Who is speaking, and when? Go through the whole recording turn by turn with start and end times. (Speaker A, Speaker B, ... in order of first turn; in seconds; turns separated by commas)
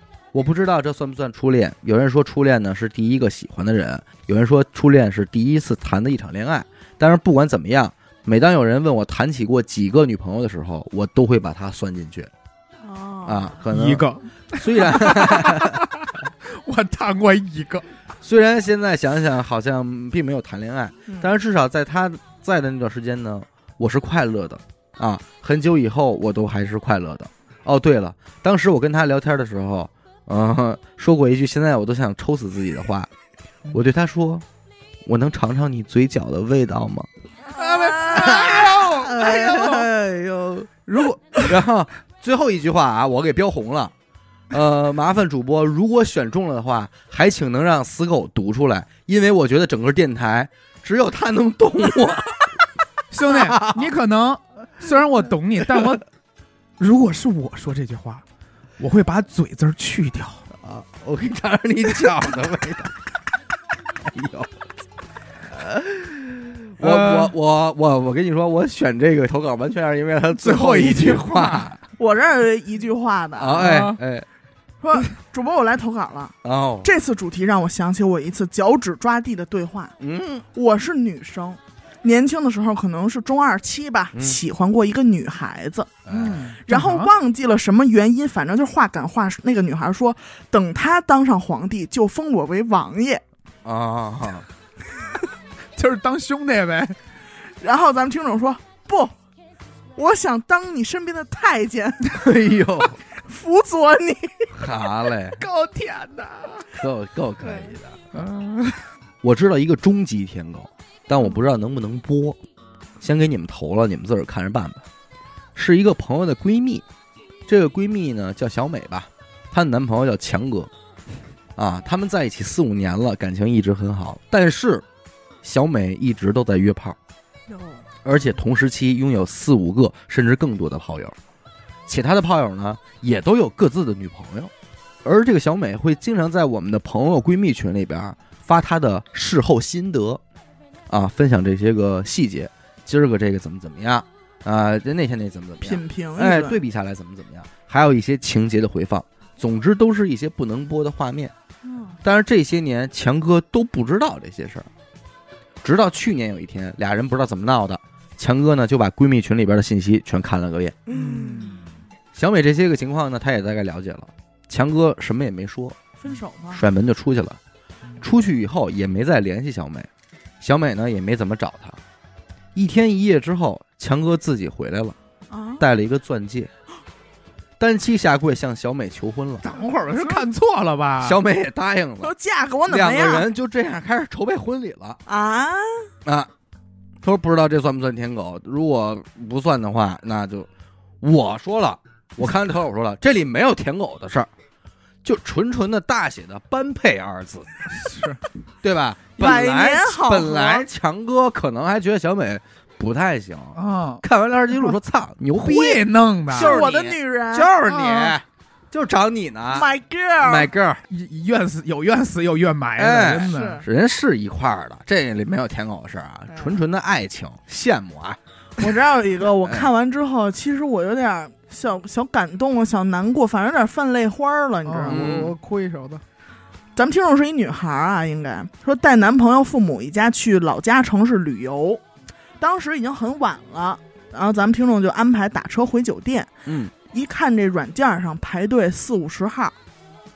Speaker A: 0.3-12.3, Speaker B: 12.8-13.6, Speaker A: 13.3-15.9, Speaker C: 13.7-17.9, Speaker A: 18.2-33.1, Speaker A: 33.7-34.5, Speaker A: 35.1-37.1, Speaker B: 37.5-39.9, Speaker C: 37.5-39.6, Speaker A: 38.1-43.9, Speaker A: 44.5-52.5, Speaker C: 53.1-56.0, Speaker A: 53.3-54.0, Speaker C: 56.8-58.2, Speaker C: 58.8-60.5, Speaker A: 60.5-62.9, Speaker A: 64.0-64.5, Speaker A: 65.5-71.8, Speaker C: 66.8-67.3, Speaker C: 70.4-71.7, Speaker B: 72.0-73.9, Speaker A: 73.4-74.3, Speaker C: 73.6-74.0, Speaker B: 74.8-80.0, Speaker A: 76.4-76.9, Speaker A: 80.0-80.4, Speaker B: 80.5-86.0, Speaker A: 84.1-84.4, Speaker A: 86.1-86.6, Speaker C: 86.1-87.1, Speaker B: 86.6-93.2, Speaker A: 93.6-94.5, Speaker C: 95.8-97.0, Speaker B: 97.6-99.1, Speaker B: 100.0-102.3, Speaker A: 102.1-103.0, Speaker B: 103.1-104.5, Speaker A: 104.5-105.4, Speaker C: 105.4-106.7, Speaker A: 106.7-108.0, Speaker B: 107.4-107.8, Speaker C: 108.1-108.9, Speaker A: 109.2-112.4, Speaker A: 113.0-114.8, Speaker A: 115.5-116.8, Speaker A: 117.5-120.7, Speaker A: 121.6-124.8, Speaker A: 125.4-127.0, Speaker B: 127.5-127.8, Speaker A: 128.0-131.2, Speaker A: 131.9-134.5, Speaker A: 135.0-140.2, Speaker A: 140.9-151.3, Speaker B: 145.6-146.6, Speaker B: 151.6-152.0, Speaker A: 152.0-154.7, Speaker A: 155.6-160.8, Speaker B: 160.9-161.6, Speaker C: 160.9-161.7, Speaker A: 162.1-165.8, Speaker B: 166.0-166.6, Speaker A: 166.5-167.4, Speaker A: 168.0-169.9, Speaker A: 170.4-171.8, Speaker A: 172.6-175.0, Speaker B: 175.3-175.7, Speaker A: 175.6-176.5, Speaker A: 177.6-179.5, Speaker C: 179.4-181.2, Speaker B: 179.9-180.2, Speaker A: 181.0-182.1, Speaker B: 182.0-183.3, Speaker A: 182.7-185.0, Speaker B: 185.1-185.9, Speaker A: 186.1-186.3, Speaker A: 187.0-190.5, Speaker A: 191.0-194.3, Speaker A: 195.0-197.5, Speaker C: 197.7-198.2, Speaker A: 198.6-209.7, Speaker B: 199.2-200.7, Speaker C: 203.6-204.1, Speaker C: 205.3-206.6, Speaker B: 206.3-207.7, Speaker C: 207.7-208.1, Speaker B: 209.5-210.5, Speaker A: 210.2-210.8, Speaker C: 210.9-213.6, Speaker A: 212.8-218.2, Speaker B: 213.3-213.7, Speaker B: 216.3-216.6, Speaker B: 218.6-225.2, Speaker C: 224.7-226.0, Speaker A: 224.9-225.4, Speaker B: 226.8-231.8, Speaker B: 232.4-236.3, Speaker A: 236.5-236.7, Speaker B: 236.9-239.6